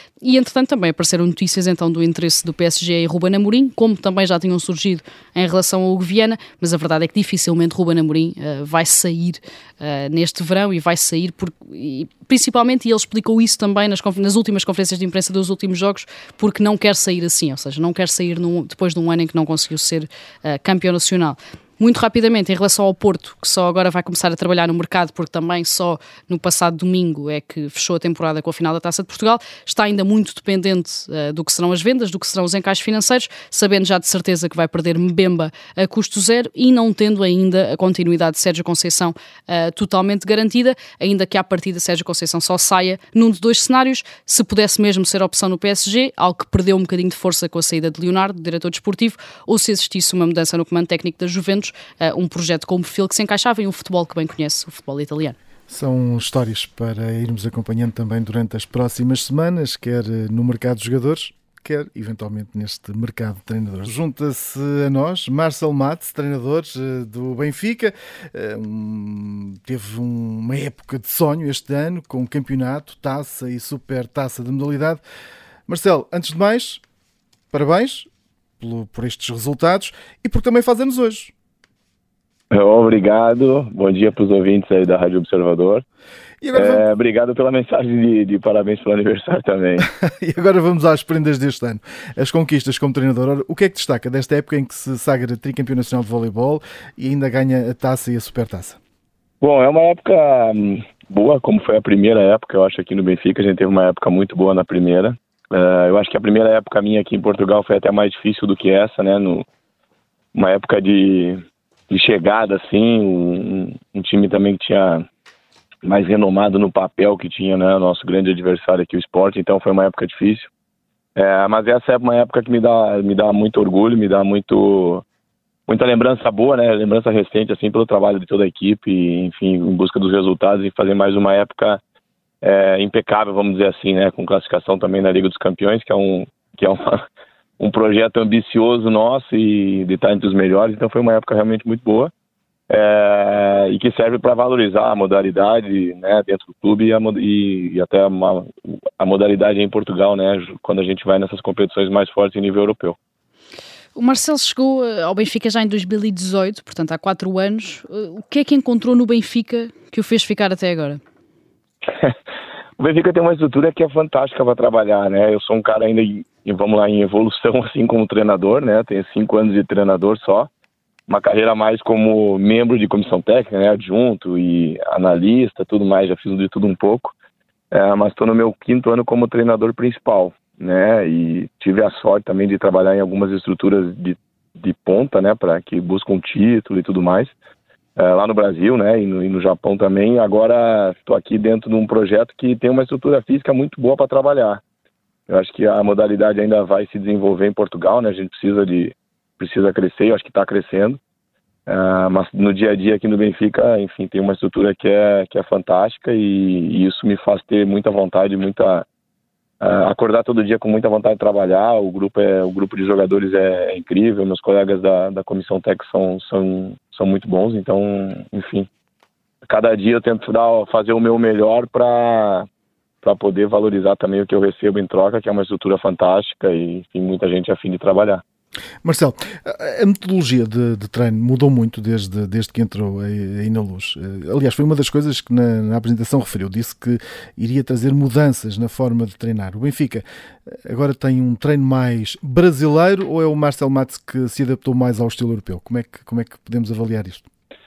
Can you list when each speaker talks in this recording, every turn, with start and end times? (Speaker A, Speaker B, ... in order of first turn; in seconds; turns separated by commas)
Speaker A: 0.2-55.4, Speaker B: 55.7-75.0, Speaker B: 75.7-76.8, Speaker B: 77.5-78.1, Speaker B: 78.6-81.3, Speaker C: 82.5-85.8, Speaker B: 86.4-86.8, Speaker C: 86.5-89.9, Speaker B: 89.8-98.8, Speaker C: 99.4-109.5, Speaker C: 110.3-115.1, Speaker C: 115.8-120.5, Speaker C: 121.2-125.0, Speaker C: 125.7-131.8, Speaker C: 132.4-137.1, Speaker C: 137.6-142.1, Speaker C: 142.7-153.0, Speaker A: 153.9-161.0, Speaker C: 161.9-162.2, Speaker C: 162.8-170.5, Speaker C: 171.1-177.1, Speaker C: 177.7-187.3, Speaker C: 188.0-194.6, Speaker C: 195.3-201.0, Speaker C: 201.7-208.9, Speaker C: 209.6-218.7, Speaker C: 219.5-222.5, Speaker C: 223.0-228.2, Speaker B: 228.8-247.3